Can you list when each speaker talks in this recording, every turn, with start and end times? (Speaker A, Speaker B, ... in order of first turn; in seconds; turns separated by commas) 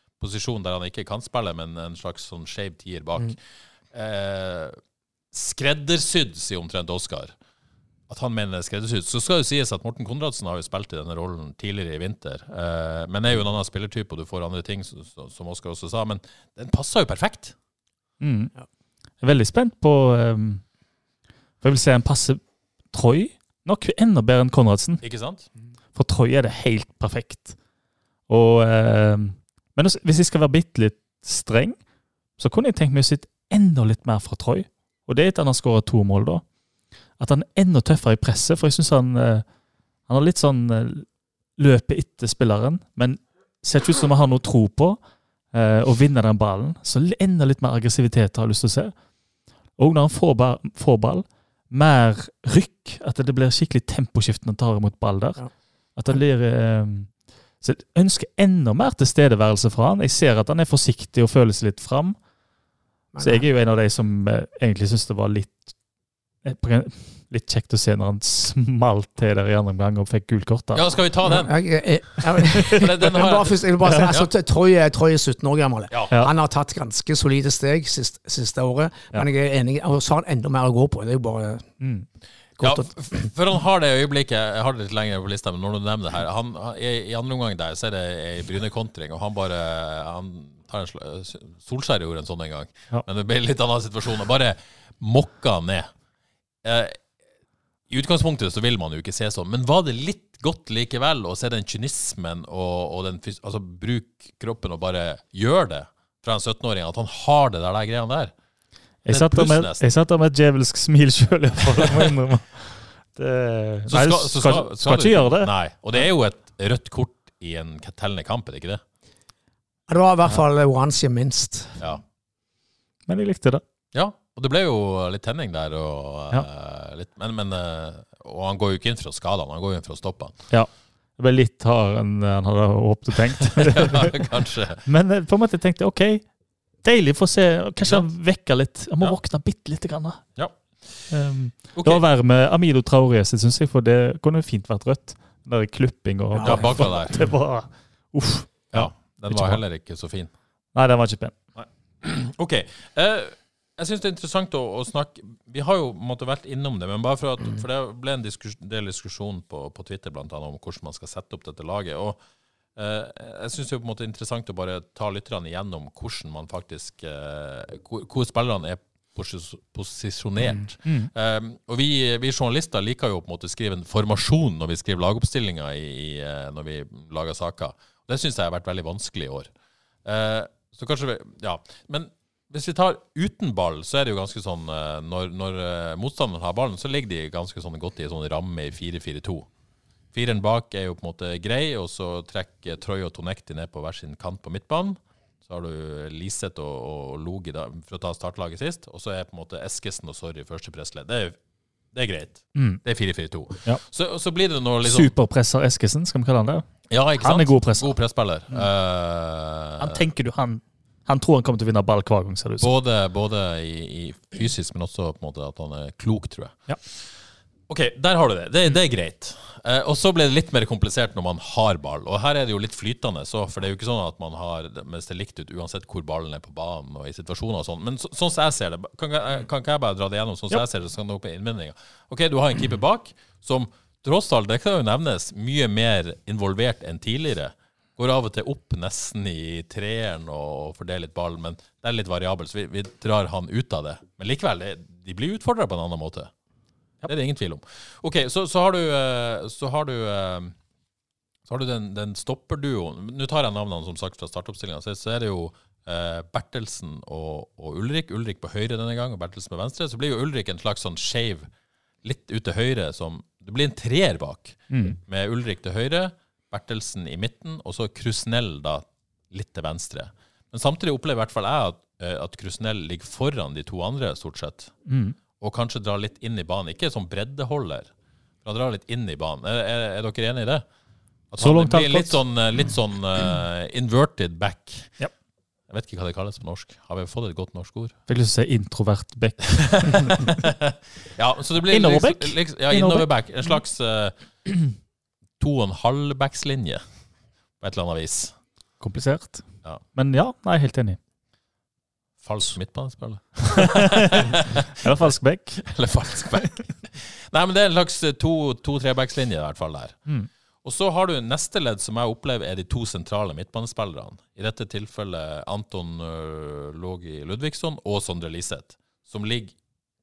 Speaker A: 0.2-3.4, Speaker A: 3.9-4.8, Speaker A: 5.3-7.3, Speaker A: 8.1-17.5, Speaker B: 18.2-18.5, Speaker B: 19.2-20.6, Speaker B: 21.6-22.4, Speaker B: 22.9-25.0, Speaker A: 25.0-25.4, Speaker B: 25.9-27.6, Speaker B: 28.3-31.8, Speaker B: 32.4-36.4, Speaker B: 37.2-39.4, Speaker B: 40.1-45.0, Speaker B: 45.5-48.9, Speaker B: 49.8-55.4, Speaker B: 56.0-62.1, Speaker C: 63.1-63.5, Speaker B: 63.2-65.7, Speaker B: 66.4-70.8, Speaker A: 70.7-71.5, Speaker C: 71.2-81.7, Speaker A: 72.7-74.3, Speaker B: 81.8-82.0, Speaker C: 82.6-83.3, Speaker A: 82.6-95.9, Speaker A: 96.6-97.0, Speaker A: 97.9-108.3, Speaker B: 109.0-115.5, Speaker A: 109.1-109.8, Speaker A: 111.8-112.1, Speaker A: 113.9-118.8, Speaker C: 119.9-121.8, Speaker B: 123.1-123.6, Speaker A: 123.9-130.3, Speaker B: 130.5-134.2, Speaker A: 133.4-134.8, Speaker B: 134.8-136.2, Speaker B: 136.8-140.2, Speaker A: 137.8-138.1, Speaker A: 140.3-141.1, Speaker B: 141.1-149.6, Speaker A: 141.7-142.0, Speaker C: 146.3-147.1, Speaker A: 146.4-147.2, Speaker A: 148.7-150.3, Speaker B: 150.7-151.3, Speaker A: 151.6-162.2, Speaker A: 162.8-179.5, Speaker B: 170.8-171.1, Speaker A: 180.0-189.5, Speaker A: 190.1-201.4, Speaker A: 201.9-205.1, Speaker B: 202.5-202.8, Speaker B: 204.8-207.9, Speaker A: 206.9-210.0, Speaker B: 209.8-212.7, Speaker A: 212.6-217.1, Speaker A: 217.7-246.3, Speaker A: 247.0-250.5, Speaker A: 251.4-261.5, Speaker A: 262.0-274.7, Speaker B: 264.7-265.0, Speaker B: 274.9-275.1, Speaker A: 275.4-277.9, Speaker A: 278.4-280.6, Speaker A: 281.3-285.0, Speaker B: 281.4-282.2, Speaker A: 285.7-288.0, Speaker B: 288.1-290.1, Speaker A: 289.5-294.1, Speaker B: 291.7-293.1, Speaker A: 295.4-296.8, Speaker A: 297.6-298.4, Speaker B: 298.8-301.0, Speaker A: 302.2-304.7, Speaker B: 303.4-305.7, Speaker A: 305.6-310.0, Speaker A: 310.6-319.5